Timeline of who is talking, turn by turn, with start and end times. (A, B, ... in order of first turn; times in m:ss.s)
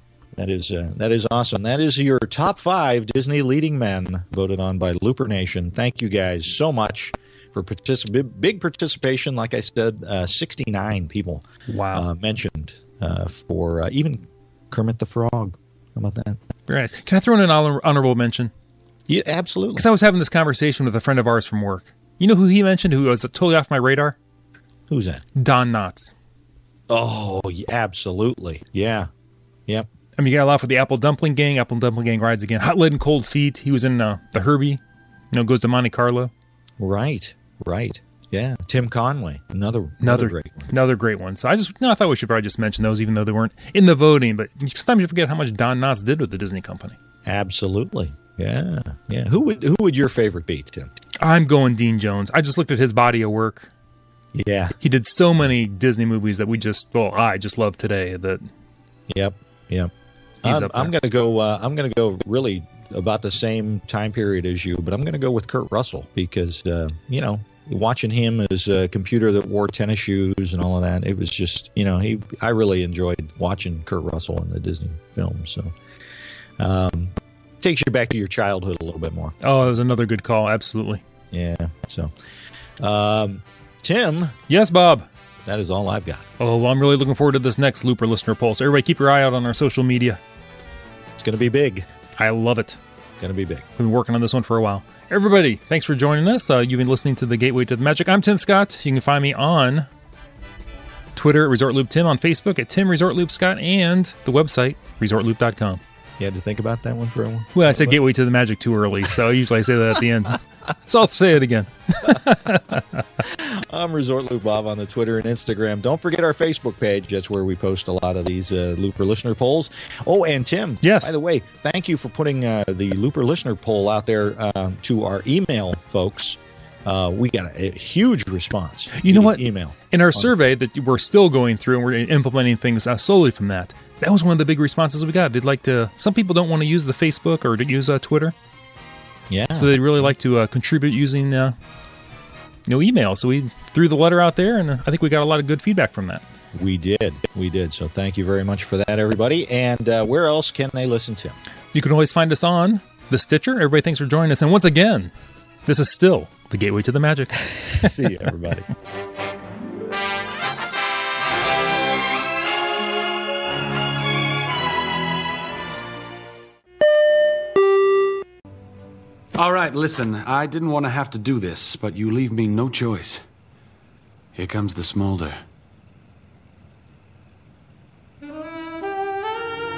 0:00.4-0:16.4 A
0:11.7-0:12.1 B
0:16.7-0:18.5 B
0:19.1-0:19.9 A
0:19.8-0:24.2 B
0:24.9-0:25.2 A
0:25.4-0:26.2 B
0:26.9-0:29.1 A
0:30.2-0:34.8 B
0:35.3-0:36.3 B
0:36.8-0:40.7 A
0:40.0-0:47.0 B
0:47.2-0:50.9 A
0:51.2-0:53.7 B
0:54.3-0:54.8 A
0:54.8-0:58.4 B
0:59.1-0:59.9 A
1:00.4-1:00.9 B
1:00.4-1:15.7 A
1:16.6-1:19.4 A
1:19.4-1:21.0 B
1:21.3-1:22.1 A
1:22.8-1:24.4 A
1:24.5-1:25.1 B
1:25.5-1:26.3 A
1:26.4-1:30.2 B
1:31.2-1:31.9 A
1:32.2-1:32.8 B
1:33.2-1:33.7 A
1:33.8-1:39.9 B
1:41.2-1:45.8 B
1:46.2-1:48.0 A
1:47.6-1:53.0 B
1:53.2-2:10.3 A
2:00.8-2:01.2 B
2:09.0-2:18.4 B
2:19.3-2:20.0 A
2:19.6-2:21.6 B
2:22.7-2:26.2 B
2:26.5-2:31.4 A
2:31.7-2:35.1 B
2:35.7-2:38.1 B
2:37.8-2:38.7 A
2:49.4-2:53.2 C
2:54.3-2:55.4 C